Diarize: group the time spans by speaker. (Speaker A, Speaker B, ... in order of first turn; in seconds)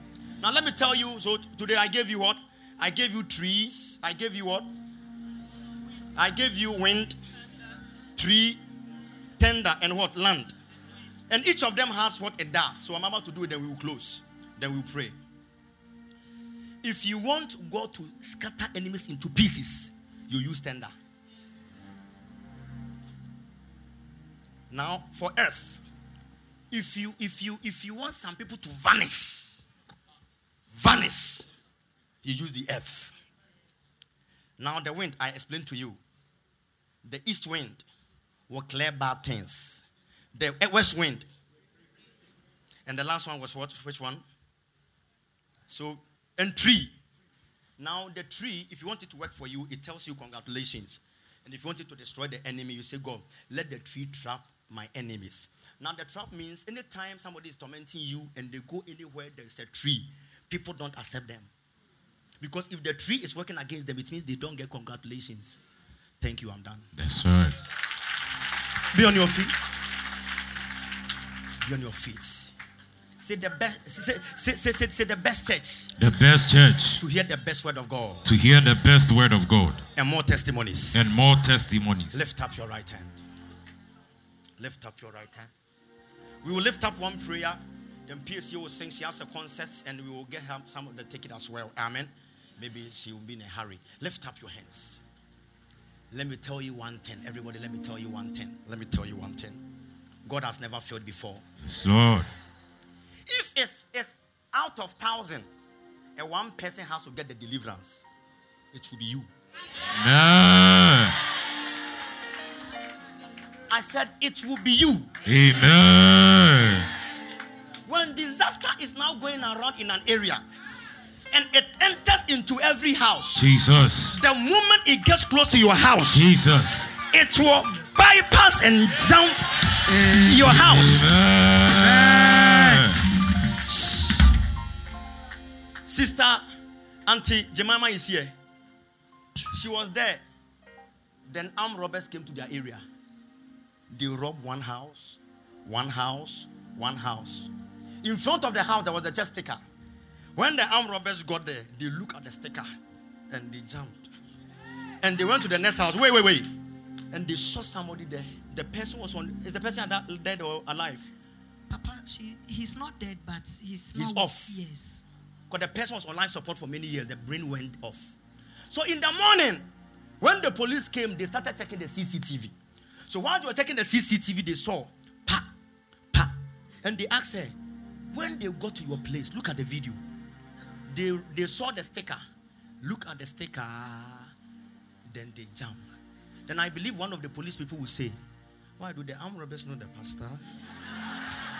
Speaker A: 0.4-4.7, 6.2-7.2, 8.2-8.6, 9.4-10.5, 11.3-15.2, 16.8-20.9, 24.7-25.8, 26.7-29.6, 30.7-31.5, 32.2-33.1, 34.6-36.0, 37.0-37.8, 38.5-39.8, 40.3-41.3, 42.9-44.2, 45.7-46.9, 47.8-61.5, 62.4-65.6, 66.2-66.9, 68.9-69.5, 71.6-72.5, 73.2-75.9, 77.0-78.2, 80.0-81.1, 82.1-83.2, 84.6-85.5, 86.4-95.0, 96.1-99.6, 100.2-101.4, 103.3-105.5, 106.2-108.0, 108.7-109.3, 113.7-115.1, 117.9-120.4, 121.3-123.5, 124.2-126.2, 127.0-129.5, 130.0-131.1, 133.7-134.2, 135.8-136.4, 137.1-138.3, 139.5-140.2, 141.3-142.8, 143.9-147.5, 148.0-149.6, 150.3-152.7, 153.3-154.1, 155.0-156.5, 157.1-161.1, 163.9-164.6, 165.5-168.1, 168.7-169.7, 170.2-172.5, 173.1-175.5, 176.1-177.6, 178.1-180.0, 180.9-182.2, 182.8-184.3, 185.1-185.8, 186.5-188.2, 188.8-190.4
Speaker B: 67.0-67.6, 76.0-77.0, 78.2-79.8, 80.9-82.3, 101.6-102.3, 109.9-111.2, 115.2-116.9, 123.3-124.2, 126.1-126.9, 130.2-133.0
Speaker C: 161.7-165.0